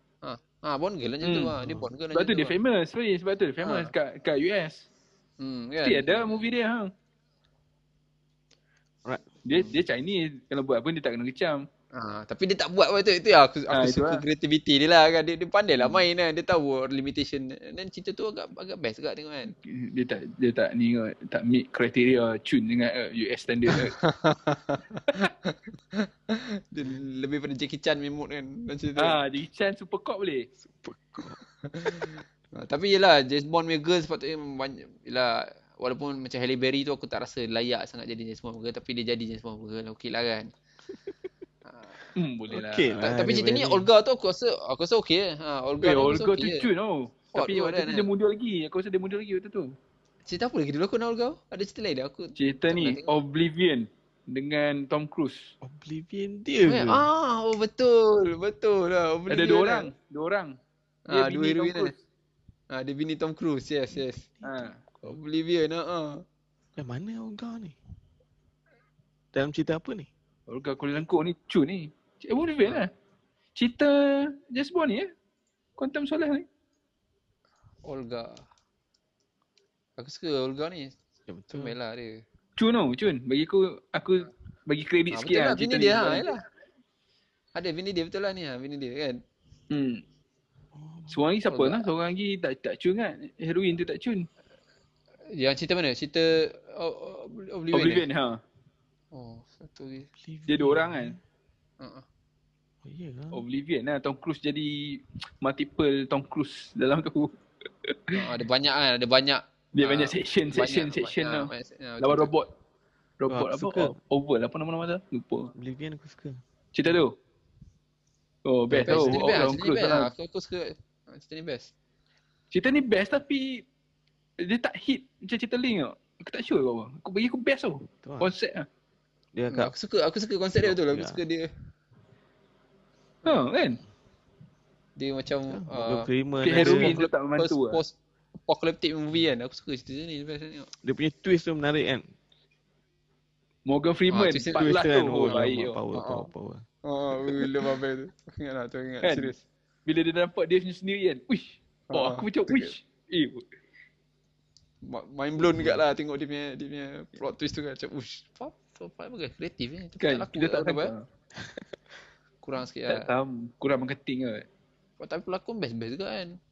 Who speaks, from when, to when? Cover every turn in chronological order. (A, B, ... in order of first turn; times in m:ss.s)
0:00.2-0:02.5 A
0:01.2-0:01.6 B
0:02.1-0:04.8 B
0:03.6-0:03.9 A
0:05.4-0:06.3 A
0:05.8-0:06.9 B
0:09.4-0:11.7 B
0:11.9-0:19.6 A
0:13.7-0:14.2 B
0:19.6-0:24.0 B
0:23.7-0:29.2 A
0:29.0-0:30.5 B
0:30.6-0:31.4 C
0:31.6-0:40.5 A
0:42.2-0:43.1 B
0:42.5-0:43.9 C
0:43.0-0:46.7 A
0:45.8-0:49.8 B
0:47.3-0:48.1 A
0:50.3-0:53.2 A
0:52.4-0:55.5 B
0:55.6-0:57.1 C
0:56.7-0:59.9 A
0:59.3-1:00.6 B
1:01.1-1:01.9 A
1:01.1-1:02.0 B
1:02.7-1:04.3 A
1:04.4-1:04.7 C
1:04.4-1:04.8 B
1:05.0-1:06.2 A
1:06.8-1:07.8 C
1:09.3-1:10.1 C
1:10.5-1:12.9 B
1:13.6-1:15.1 B
1:15.8-1:16.5 B
1:17.8-1:18.4 A
1:20.0-1:21.0 A
1:21.3-1:21.8 C
1:21.5-1:22.2 A
1:22.6-1:26.3 B
1:25.1-1:26.4 A
1:27.6-1:29.2 A
1:29.7-1:30.0 B
1:30.7-1:31.2 C
1:31.1-1:34.3 B
1:31.5-1:31.9 A
1:35.3-1:38.0 A
1:37.7-1:38.4 B
1:39.1-1:40.1 A
1:40.2-1:41.2 C
1:40.5-1:41.2 B
1:41.8-1:42.0 A
1:42.8-1:43.4 C
1:43.3-1:47.3 B
1:47.8-1:48.2 B
1:48.1-1:52.3 A
1:49.8-1:52.5 B
1:53.2-1:55.5 B
1:53.3-1:53.9 C
1:55.6-1:56.4 C
1:56.7-1:57.2 B
1:58.5-2:00.1 B
1:58.7-1:59.2 C
1:58.8-2:01.7 A
2:02.5-2:03.7 B
2:04.4-2:08.7 B
2:07.8-2:08.3 C
2:09.3-2:09.7 C
2:09.5-2:11.5 A
2:10.6-2:11.2 C
2:13.2-2:13.8 B
2:15.0-2:20.7 A
2:15.5-2:17.0 C
2:16.4-2:17.8 B
2:20.8-2:22.1 C
2:23.7-2:25.8 B
2:24.1-2:24.8 A
2:24.6-2:26.6 C
2:25.3-2:26.3 A
2:26.8-2:29.4 A
2:29.0-2:29.3 B
2:29.9-2:33.4 B
2:31.9-2:32.7 A
2:34.8-2:40.9 A
2:35.5-2:35.8 C
2:40.0-2:41.0 B
2:42.4-2:43.1 A
2:42.9-2:44.5 B
2:45.0-2:46.4 A